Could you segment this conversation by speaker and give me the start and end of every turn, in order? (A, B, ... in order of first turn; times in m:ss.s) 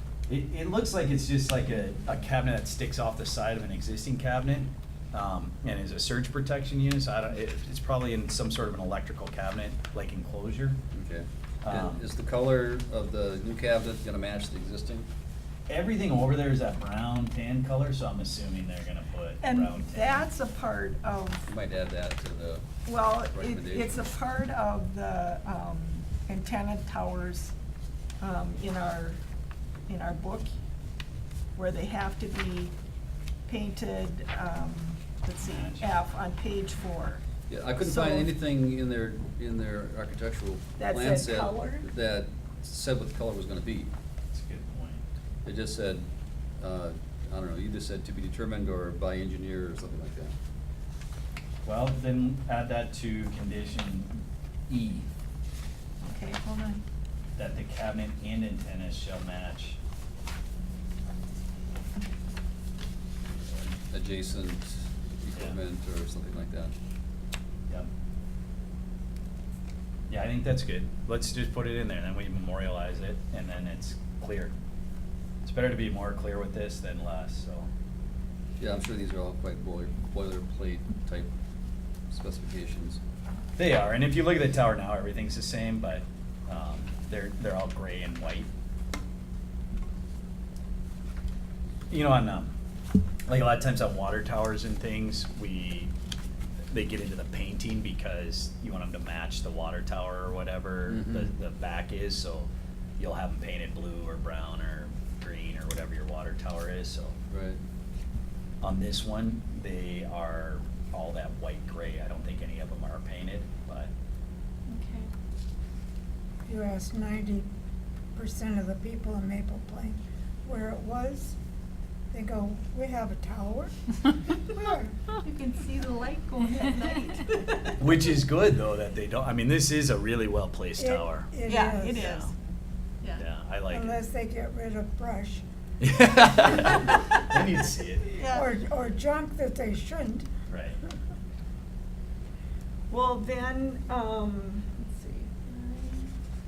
0:00.3-0:10.8 A
0:10.9-0:15.1 B
0:11.6-0:12.0 A
0:15.7-0:20.2 A
0:19.4-0:21.4 C
0:21.5-0:24.0 B
0:22.9-0:27.5 C
0:28.2-0:29.2 C
0:29.9-0:30.5 C
0:31.6-0:32.7 C
0:33.5-0:37.2 C
0:35.4-0:35.9 A
0:37.5-0:43.9 B
0:37.8-0:38.3 C
0:40.8-0:41.8 C
0:44.3-0:45.0 A
0:45.4-0:46.1 B
0:46.6-0:50.3 B
0:51.6-0:55.1 A
0:56.0-0:56.8 C
0:57.4-0:59.8 A
1:03.4-1:06.7 B
1:10.1-1:14.5 A
1:15.4-1:17.7 A
1:18.6-1:21.3 B
1:22.1-1:23.0 B
1:23.6-1:28.5 A
1:31.9-1:32.5 A
1:33.3-1:35.9 A
1:36.7-1:47.2 A
1:40.9-1:41.3 B
1:47.3-1:47.6 B
1:48.6-1:53.9 A
1:54.7-1:55.1 C
1:56.5-1:57.5 D
1:58.2-2:01.4 D
2:02.1-2:03.7 D
2:04.5-2:05.0 D
2:05.2-2:07.8 C
2:07.8-2:11.3 A
2:10.8-2:12.1 D
2:11.5-2:12.3 C
2:12.0-2:12.3 A
2:13.1-2:14.0 A
2:13.7-2:15.5 D
2:15.8-2:18.2 A
2:18.1-2:18.4 C
2:18.3-2:20.3 D
2:20.5-2:20.8 A
2:22.9-2:26.1 C